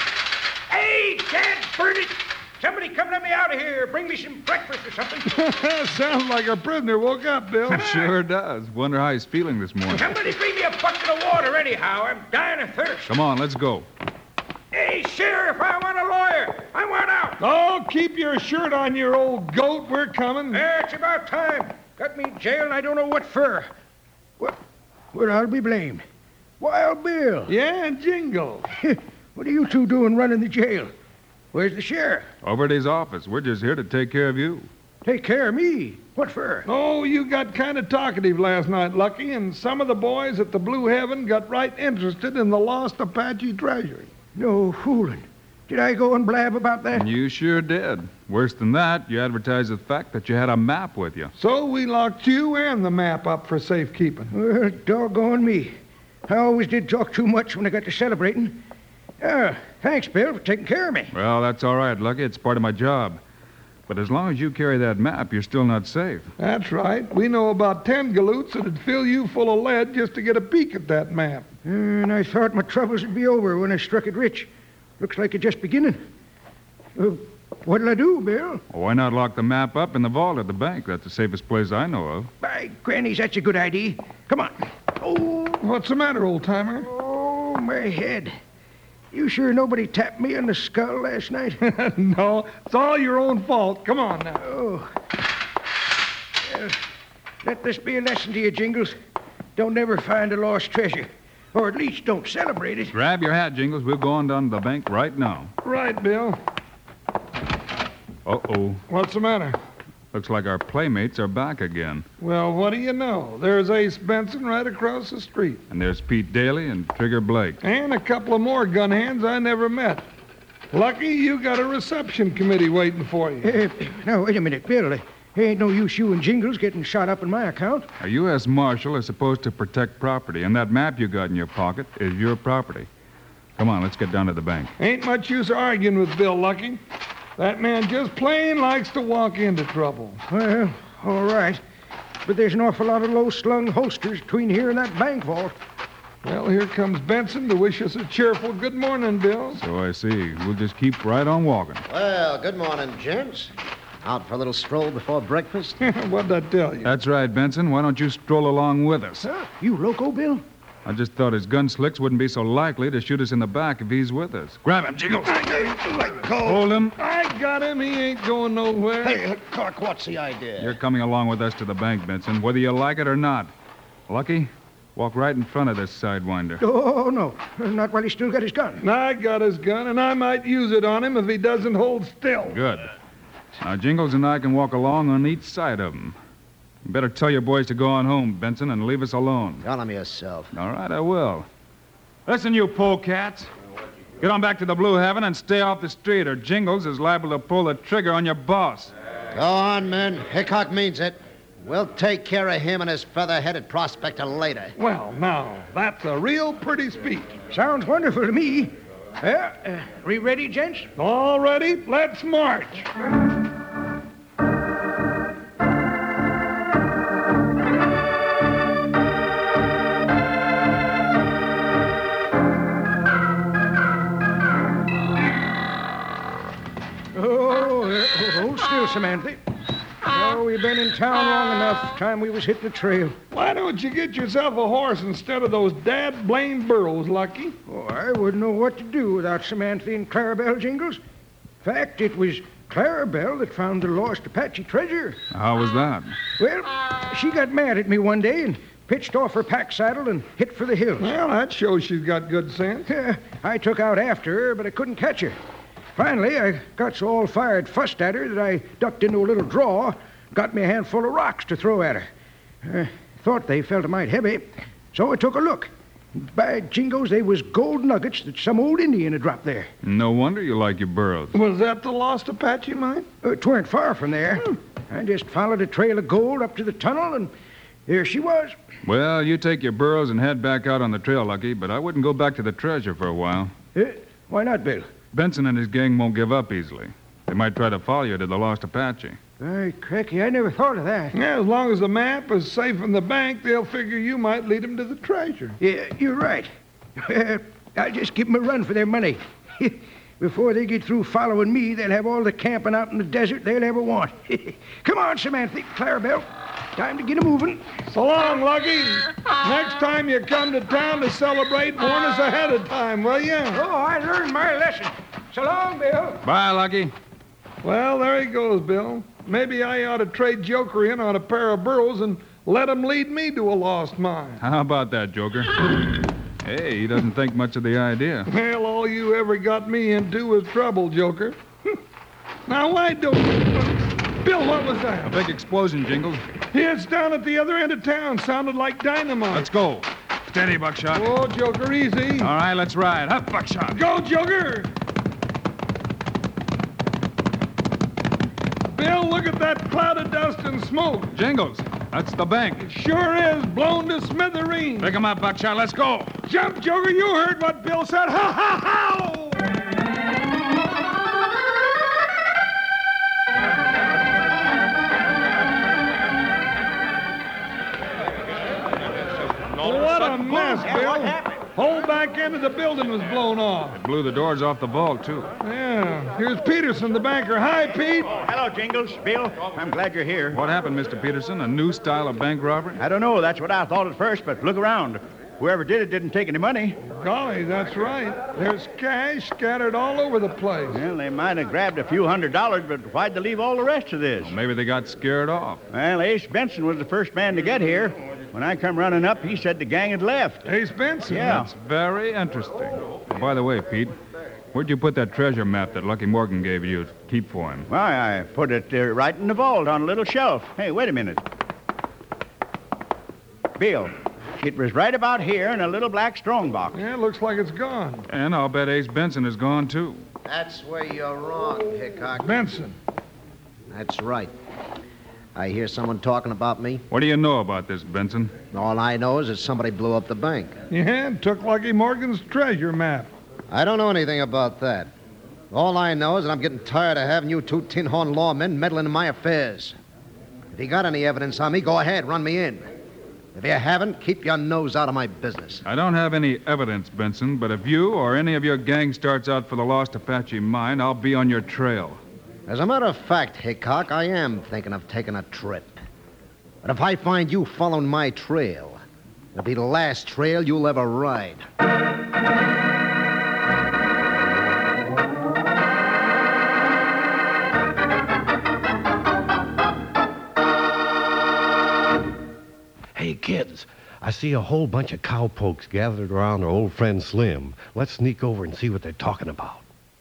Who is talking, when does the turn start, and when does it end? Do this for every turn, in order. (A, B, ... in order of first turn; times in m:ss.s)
0:00.7-0:05.4 A
0:05.3-0:08.0 B
0:07.7-0:10.1 C
0:09.9-0:13.1 A
0:13.1-0:13.8 C
0:14.7-0:17.4 A
0:17.4-0:20.6 B
0:20.5-0:23.7 A
0:25.1-0:26.0 A
0:26.6-0:27.5 A
0:27.5-0:28.7 B
0:28.8-0:30.9 A
0:31.5-0:32.3 A
0:32.4-0:34.7 C
0:35.0-0:36.6 A
0:36.6-0:44.1 B
0:44.4-0:47.1 A
0:46.9-0:51.3 C
0:51.4-0:54.3 B
0:54.3-0:55.7 A
0:56.3-0:58.6 A
0:59.2-1:01.1 A
1:01.1-1:03.2 C
1:03.9-1:06.3 C
1:06.4-1:11.4 B
1:11.6-1:16.0 A
1:17.0-1:18.6 A
1:18.7-1:22.3 C
1:22.4-1:25.6 A
1:25.6-1:26.9 B
1:26.8-1:28.4 A
1:29.1-1:31.6 A
1:31.6-1:34.4 B
1:34.4-1:34.9 A
1:36.4-1:36.8 A
1:37.4-1:39.0 A
1:39.6-1:42.9 A
1:42.9-1:45.5 C
1:45.6-1:46.4 B
1:48.2-1:48.8 C
1:48.9-1:49.6 B
1:50.1-1:52.0 C
1:52.2-1:55.6 B
1:55.7-1:57.6 C
1:57.6-2:00.0 B
2:00.7-2:03.5 B
2:03.4-2:07.9 A
2:08.0-2:12.9 C
2:13.6-2:14.7 C
2:14.8-2:16.8 B
2:17.4-2:20.2 B
2:20.3-2:21.6 A
2:22.2-2:25.5 A
2:26.2-2:29.6 B
2:29.6-2:31.8 C
2:31.9-2:33.5 D
2:34.0-2:35.8 D
2:35.8-2:36.9 B
2:36.8-2:39.2 C
2:39.2-2:40.4 A
2:40.8-2:45.5 C
2:45.3-2:46.4 B
2:46.4-2:46.9 C
2:47.0-2:49.2 B
2:49.0-2:50.8 D
2:50.6-2:53.5 C
2:54.1-2:56.6 C
2:56.6-2:58.8 A
2:58.8-3:02.6 B
3:02.5-3:02.8 C
3:03.6-3:06.1 C
3:06.8-3:09.6 C
3:09.6-3:10.5 D
3:10.5-3:11.4 C
3:12.2-3:13.5 C
3:14.2-3:18.9 C
3:19.3-3:24.7 D
3:24.8-3:27.3 B
3:27.5-3:30.9 A
3:31.0-3:32.9 B
3:47.1-3:49.4 A
3:50.1-3:53.2 A
3:53.3-3:57.6 B
3:57.7-4:01.0 A
4:01.6-4:05.2 A
4:05.3-4:06.1 C
4:06.4-4:11.1 A
4:11.0-4:12.9 B
4:12.9-4:15.4 A
4:16.0-4:22.1 A
4:22.6-4:29.7 A
4:29.8-4:31.3 C
4:31.3-4:33.0 B
4:33.2-4:37.3 A
4:37.9-4:38.5 A
4:38.8-4:43.5 C
4:43.7-4:44.9 A
4:45.1-4:49.2 C
4:49.4-4:51.1 A
4:51.1-4:55.6 B
4:55.6-5:07.6 A
5:07.9-5:13.6 B
5:13.5-5:16.2 A
5:16.2-5:16.9 C
5:17.6-5:24.4 B
5:24.4-5:25.6 C
5:26.4-5:28.3 C
5:28.3-5:31.4 B
5:32.5-5:35.2 B
5:35.0-5:36.2 C
5:36.5-5:39.5 B
5:39.3-5:41.1 C
5:40.9-5:42.3 B
5:42.2-5:43.8 C
5:43.7-5:44.7 B
5:48.6-5:51.1 B
5:51.1-5:52.7 C
5:52.6-5:54.9 B
5:54.8-5:56.1 C
5:56.3-5:59.4 B
6:09.6-6:11.4 E
6:09.6-6:13.8 B
6:13.7-6:15.3 C
6:15.4-6:18.1 B
6:18.1-6:20.4 E
6:20.3-6:22.8 C
6:22.8-6:26.8 E
6:27.0-6:30.8 B
6:30.7-6:34.4 E
6:34.2-6:35.6 C
6:35.7-6:40.4 E
6:40.4-6:41.4 B
6:41.1-6:41.5 E
6:41.2-6:43.9 C
6:44.5-6:47.7 C
6:47.7-6:51.2 E
6:53.6-6:56.8 E
6:56.7-6:58.1 B
6:58.1-7:00.0 C
7:00.2-7:02.5 D
7:02.2-7:02.7 B
7:03.7-7:04.3 D
7:05.3-7:06.8 D
7:06.9-7:08.3 C
7:08.5-7:10.6 D
7:10.7-7:13.1 B
7:13.5-7:14.9 D
7:15.5-7:19.8 D
7:20.5-7:22.7 D
7:23.3-7:25.6 D
7:25.6-7:32.0 C
7:32.5-7:35.8 D
7:36.6-7:38.8 D
7:39.3-7:41.4 D
7:52.9-7:59.6 F